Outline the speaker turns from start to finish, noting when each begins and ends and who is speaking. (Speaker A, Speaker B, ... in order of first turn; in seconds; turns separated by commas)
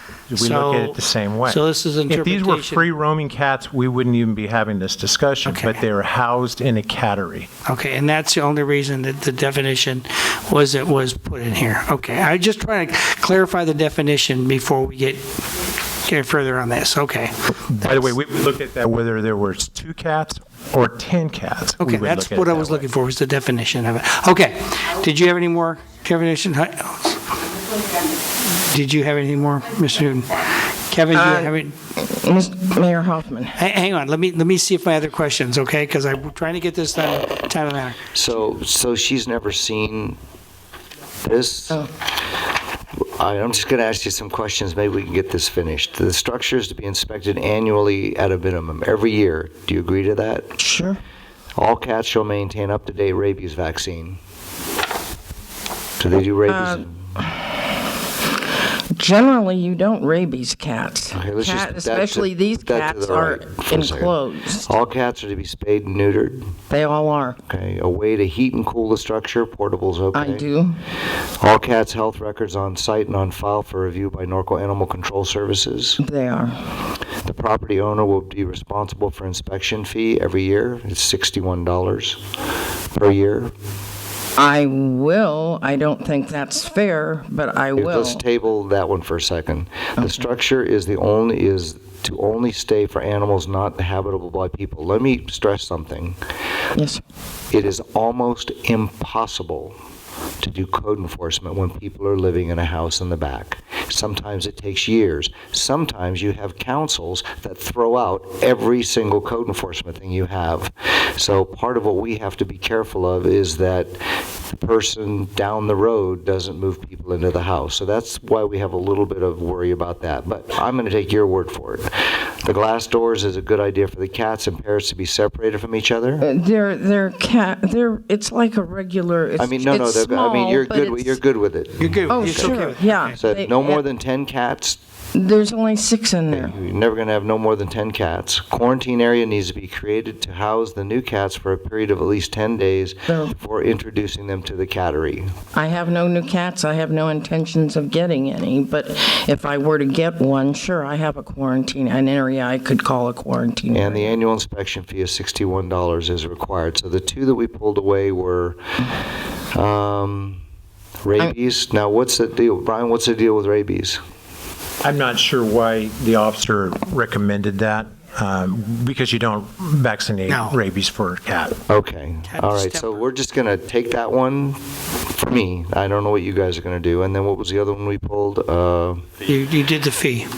Speaker A: 0.3-7.5, Speaker B: 0.4-2.8, Speaker B: 5.4-5.8, Speaker B: 7.6-15.2, Speaker B: 16.0-17.3, Speaker A: 17.7-22.9, Speaker B: 21.8-27.3, Speaker B: 28.5-31.7, Speaker C: 31.1-33.6, Speaker B: 33.6-38.0, Speaker D: 38.1-40.2, Speaker D: 41.2-41.8, Speaker D: 43.2-50.5, Speaker C: 50.6-51.0, Speaker D: 51.5-54.2, Speaker D: 56.0-57.0, Speaker C: 56.5-57.4, Speaker C: 59.0-64.7, Speaker D: 61.1-64.1, Speaker D: 64.7-66.4, Speaker C: 66.7-67.4, Speaker D: 67.5-70.4, Speaker C: 70.1-70.8, Speaker D: 71.4-76.0, Speaker C: 76.0-76.7, Speaker D: 77.2-82.2, Speaker D: 82.9-83.5, Speaker C: 84.4-88.2, Speaker D: 87.8-96.2, Speaker C: 90.0-90.2, Speaker C: 96.7-97.0, Speaker D: 97.5-99.7, Speaker D: 100.4-114.0, Speaker D: 114.5-121.9, Speaker D: 122.4-126.2, Speaker C: 126.2-131.2, Speaker D: 129.4-134.8, Speaker B: 131.8-133.1, Speaker C: 132.1-133.8, Speaker C: 135.1-136.6, Speaker D: 136.3-145.3, Speaker C: 143.1-143.3, Speaker C: 145.5-154.2, Speaker D: 153.7-158.6, Speaker D: 159.5-160.4, Speaker D: 161.0-164.0, Speaker A: 164.8-171.6, Speaker B: 170.3-170.6, Speaker D: 171.7-174.6, Speaker B: 172.3-173.1, Speaker D: 175.1-179.0, Speaker B: 179.2-180.3